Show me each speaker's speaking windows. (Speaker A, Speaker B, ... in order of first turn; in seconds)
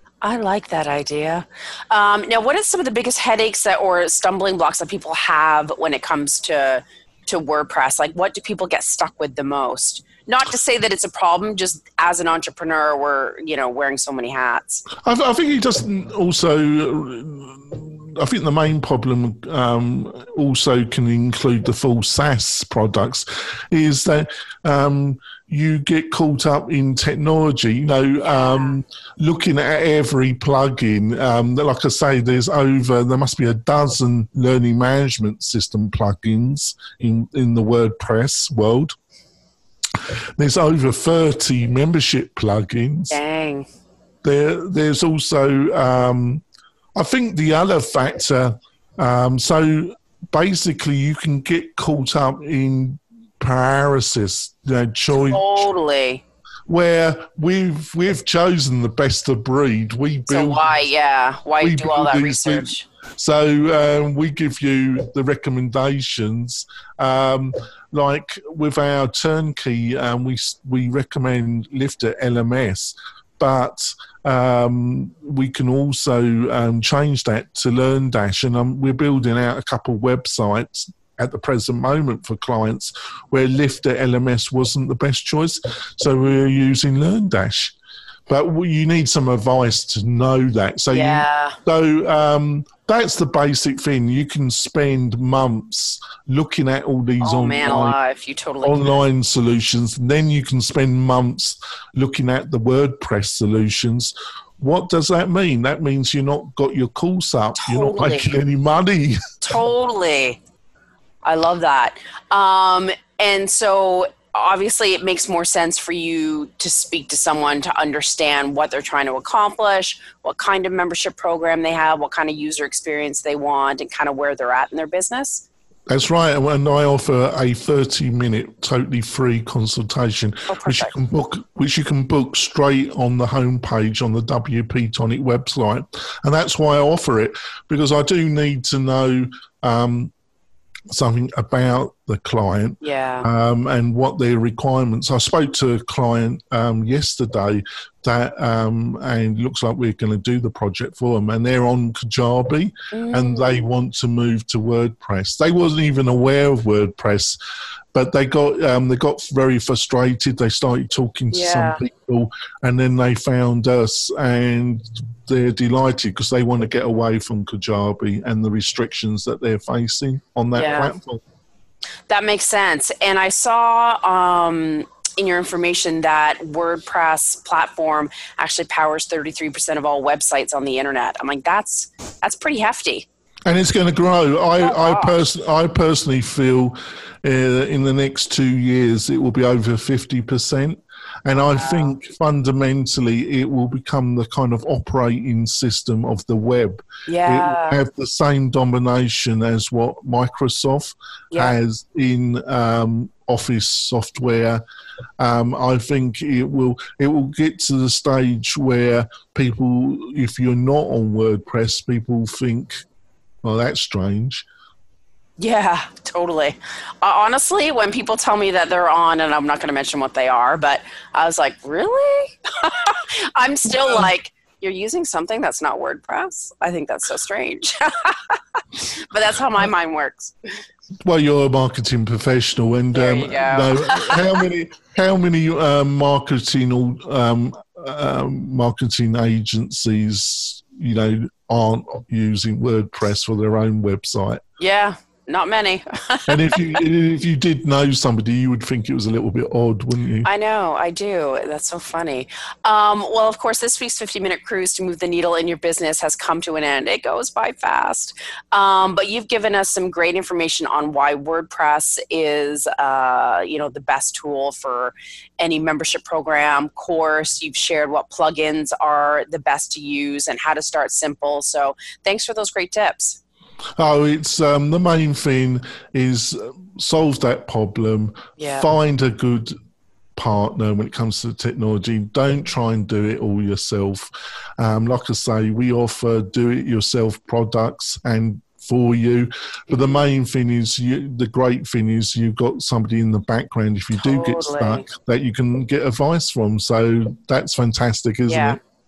Speaker A: 0.2-14.8, 28.2-28.7, 43.1-43.7, 55.1-56.2, 60.3-62.8, 90.9-91.5, 97.2-99.0, 107.6-108.3, 109.4-110.4, 111.2-125.5, 130.5-130.9, 142.8-143.3, 152.9-153.6, 161.3-161.8, 170.5-170.9, 172.1-183.1, 184.6-185.3, 191.3-191.9, 197.1-197.8, 215.4-230.3, 232.9-234.2, 244.6-246.7, 250.2-273.2, 278.4-278.7, 289.7-290.1, 294.0-294.9, 298.2-298.6
Speaker B: 15.0-39.0, 40.0-43.2, 44.2-46.4, 47.0-55.6, 56.7-60.7, 61.6-87.8, 88.3-98.0, 98.6-109.3, 125.9-140.1, 140.9-157.4, 157.9-171.2, 183.5-204.6, 205.2-212.8, 213.4-214.4, 231.1-244.4, 246.3-250.3, 273.8-279.6, 280.1-298.6